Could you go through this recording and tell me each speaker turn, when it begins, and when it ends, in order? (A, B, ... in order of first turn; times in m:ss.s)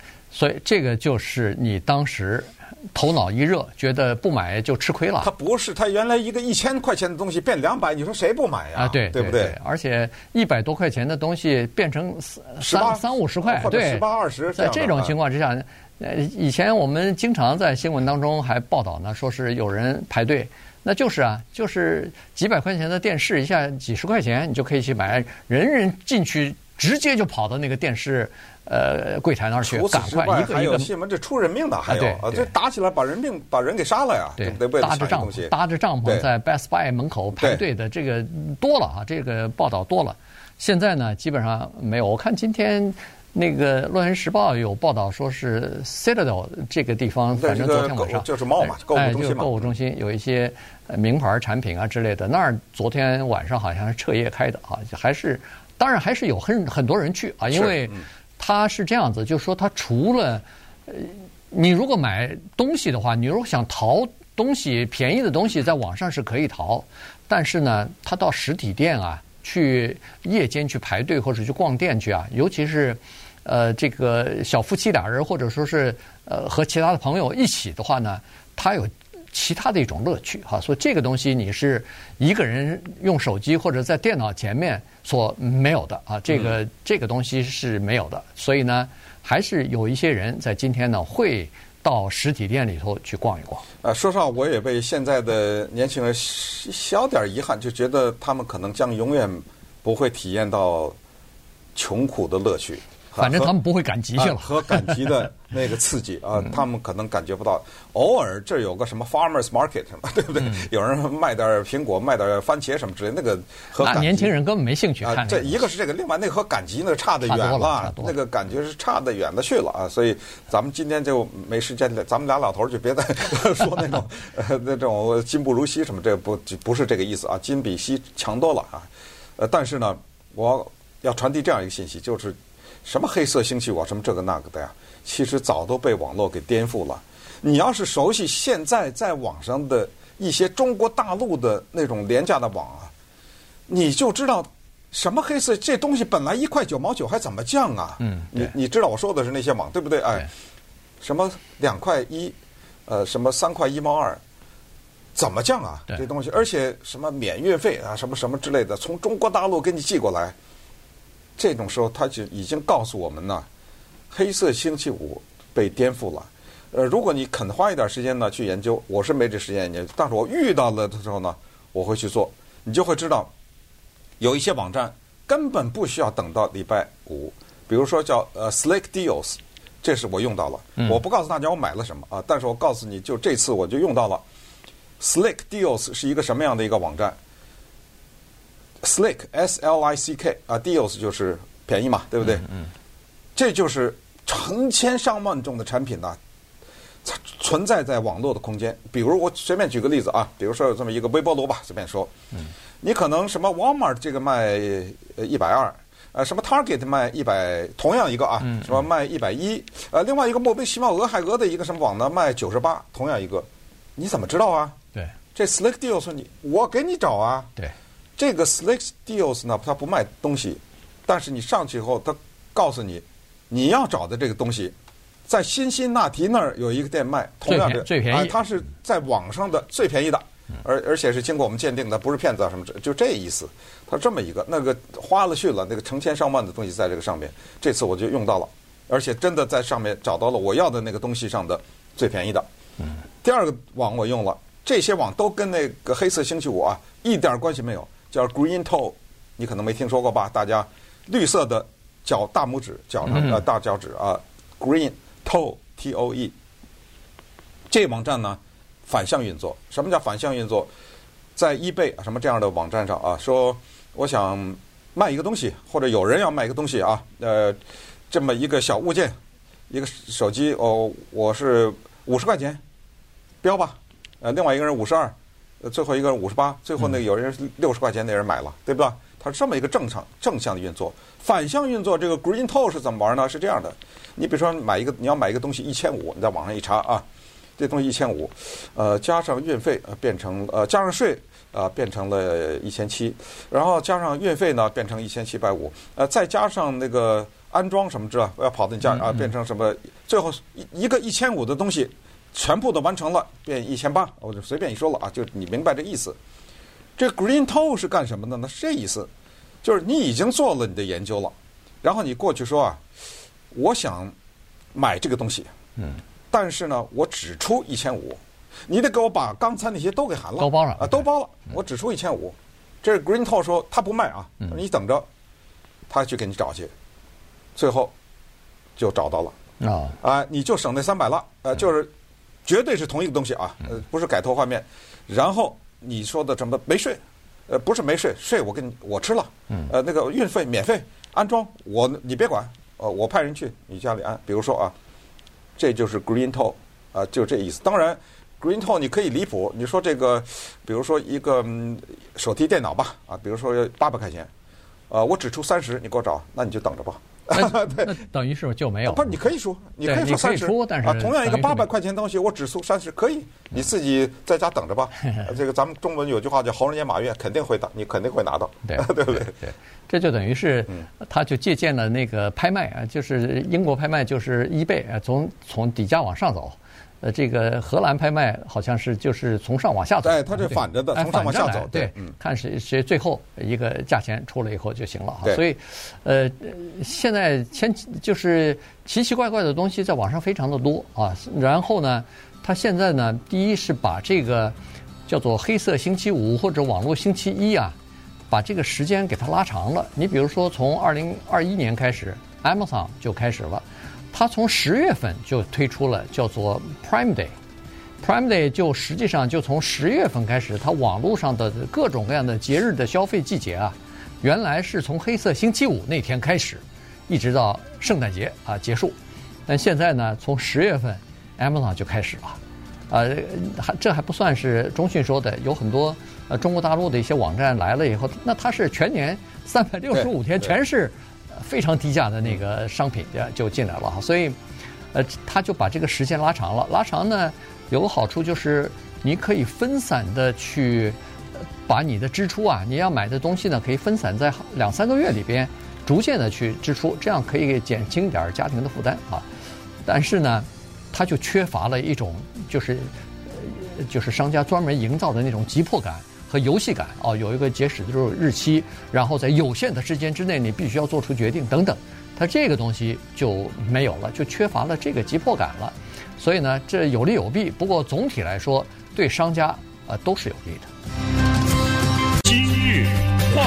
0:00.3-0:05.3 A
0:05.2-0:09.6 B
0:08.8-0:30.9 A
0:12.6-0:15.1 B
0:29.6-0:35.5 B
0:31.9-0:32.5 A
0:34.4-1:33.6 A
0:37.4-0:37.6 B
0:47.4-0:49.7 B
0:57.5-0:58.0 B
1:26.3-1:26.6 B
1:33.8-1:40.9 B
1:41.8-1:43.5 B
1:43.2-1:45.1 A
1:44.2-1:54.3 B
1:53.8-1:55.7 A
1:55.0-2:22.9 B
1:57.2-1:58.1 A
2:23.7-2:30.3 B
2:28.0-2:28.5 A
2:31.0-2:32.4 B
2:32.9-2:34.2 B
2:35.1-2:40.4 B
2:41.4-2:43.4 B
2:44.1-2:53.3 B
2:54.2-3:04.2 B
3:05.0-3:07.2 B
3:08.8-3:12.5 B
3:13.4-3:16.2 B
3:17.0-3:22.1 B
3:22.8-3:34.8 B
3:35.4-3:37.5 B
3:38.2-3:44.7 B
3:45.3-4:02.5 B
3:47.4-3:48.4 A
4:03.2-4:16.3 B
4:17.7-4:20.7 B
4:21.4-4:27.6 B
4:28.1-4:29.1 B
4:29.7-4:32.6 B
4:33.4-4:47.0 B
4:47.6-5:06.2 B
5:07.0-5:09.1 B
5:09.6-5:12.8 B
5:13.5-5:14.1 B
5:14.7-5:15.5 B
5:16.3-5:25.1 B
5:20.4-5:21.0 A
5:25.9-5:26.7 B
5:27.5-5:27.9 B
5:28.8-5:29.4 B
5:29.6-5:30.0 A
5:30.0-5:31.9 B
5:32.4-5:44.7 B
5:45.6-5:54.3 B
5:54.9-5:57.9 B
5:57.3-5:59.2 A
5:58.9-6:09.4 B
5:59.8-6:01.7 A
6:08.7-6:34.6 A
6:20.0-6:22.1 B
6:35.1-6:37.8 A
6:38.3-6:47.3 A
6:48.0-6:59.0 A
6:59.5-7:14.4 A
7:09.9-7:10.5 B
7:14.9-7:21.0 A
7:21.6-7:29.3 A
7:29.9-7:50.7 A